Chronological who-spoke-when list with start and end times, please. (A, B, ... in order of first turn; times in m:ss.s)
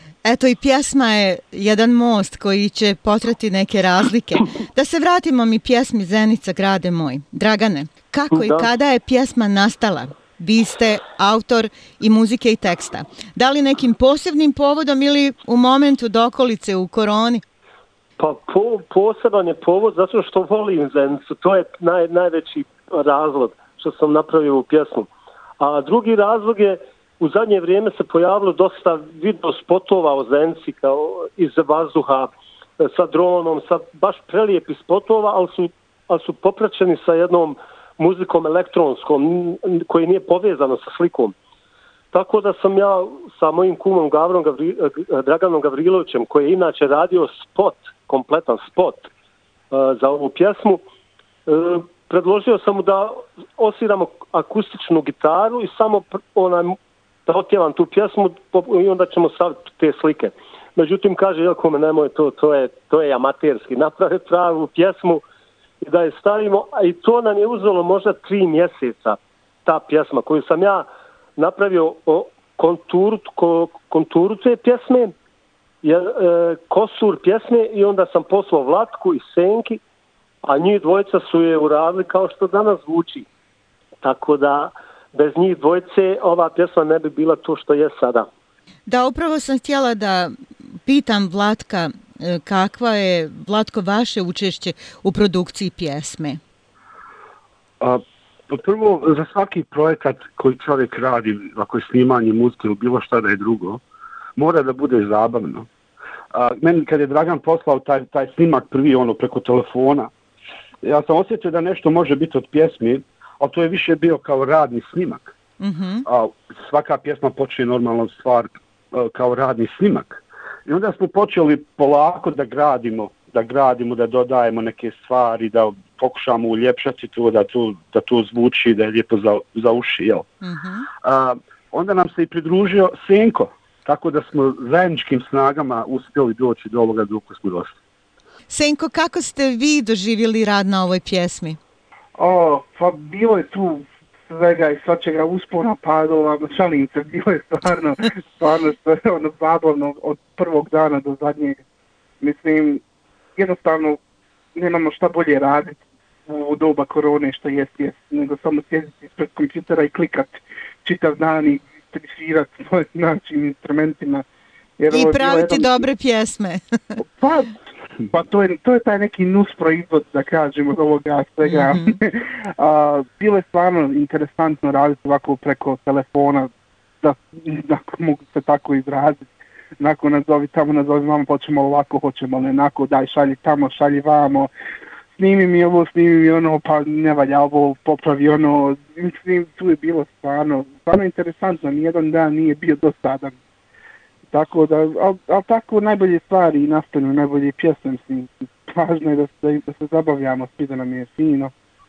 0:00.2-0:17.4 A
0:08.3-0:08.7 B
0:18.2-0:25.1 B
0:25.6-0:41.3 B
0:42.1-0:49.1 B
0:49.7-0:50.8 B
0:51.5-0:56.7 B
0:57.3-1:05.2 B
1:05.8-1:15.1 B
1:15.8-1:19.8 B
1:20.4-1:23.3 B
1:24.0-1:28.3 B
1:28.9-1:30.3 A
1:30.8-1:36.4 A
1:37.8-1:43.8 C
1:44.4-1:45.7 C
1:46.3-1:50.1 C
1:50.8-1:55.3 C
1:55.6-1:56.0 A
1:56.0-2:10.3 C
2:10.4-2:10.9 A
2:11.0-2:17.8 C
2:18.5-2:21.6 A
2:22.2-2:31.6 D
2:32.2-2:32.8 D
2:33.4-2:34.0 D
2:34.5-2:44.2 D
2:44.8-2:45.9 D
2:44.9-2:47.0 A
2:47.1-2:56.5 D
2:51.4-2:52.0 A
2:57.0-2:59.3 D
2:59.8-3:04.5 D
3:05.2-3:13.3 D
3:14.3-3:21.5 D